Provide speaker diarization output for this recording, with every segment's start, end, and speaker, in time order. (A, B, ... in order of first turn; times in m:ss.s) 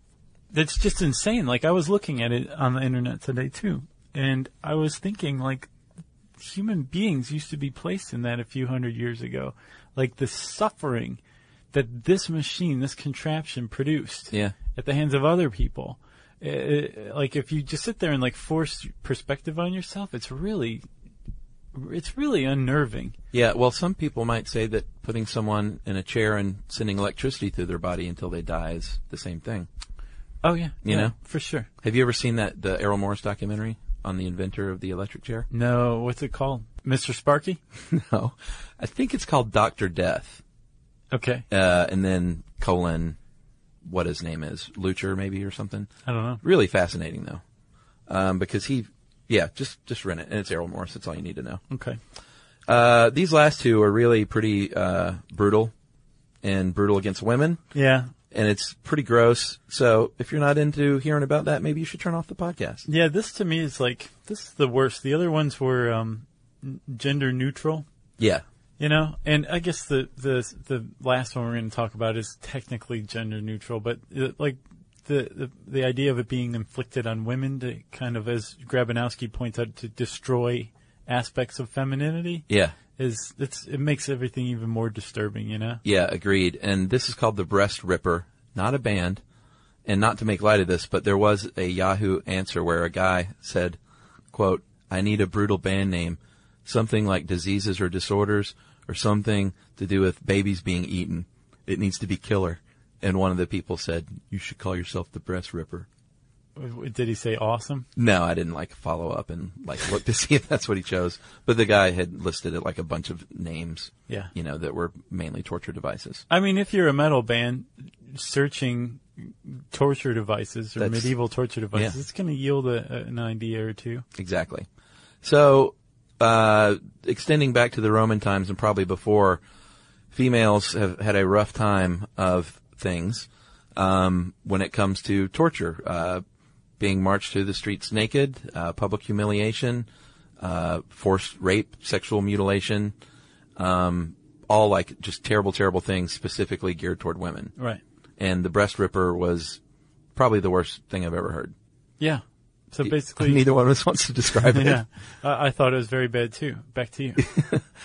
0:00.5-0:05.7 A
0:06.4-0:11.2 A
0:11.7-0:20.8 A
0:14.3-0:14.6 B
0:21.7-0:23.2 A
0:23.3-0:29.7 B
0:30.4-0:31.7 A
0:30.8-0:31.1 B
0:31.8-0:35.5 B
0:35.5-0:37.6 A
0:37.8-0:40.4 B
0:41.1-0:41.4 A
0:41.5-0:43.2 B
0:43.8-0:45.9 B
0:46.1-0:46.4 A
0:46.4-0:47.4 B
0:48.1-0:51.6 B
0:51.7-0:52.0 A
0:52.7-0:55.7 B
0:56.4-0:57.6 B
0:57.7-0:58.1 A
0:58.3-1:02.8 B
1:02.9-1:07.8 A
1:08.2-1:08.4 B
1:08.8-1:25.8 A
1:22.5-1:22.8 B
1:25.8-1:29.2 B
1:29.9-1:33.8 B
1:34.3-1:45.9 B
1:46.6-1:47.9 A
1:48.0-1:56.2 B
1:56.3-2:04.0 A
2:00.8-2:01.1 B
2:04.2-2:04.7 B
2:05.2-2:09.4 B
2:10.1-2:16.2 B
2:16.8-2:19.9 B
2:20.4-2:22.9 B
2:23.6-2:27.5 B
2:28.2-2:29.6 B
2:30.2-2:31.5 B
2:32.0-2:33.4 A
2:32.8-2:34.8 B
2:34.4-2:37.2 A
2:37.2-2:37.7 B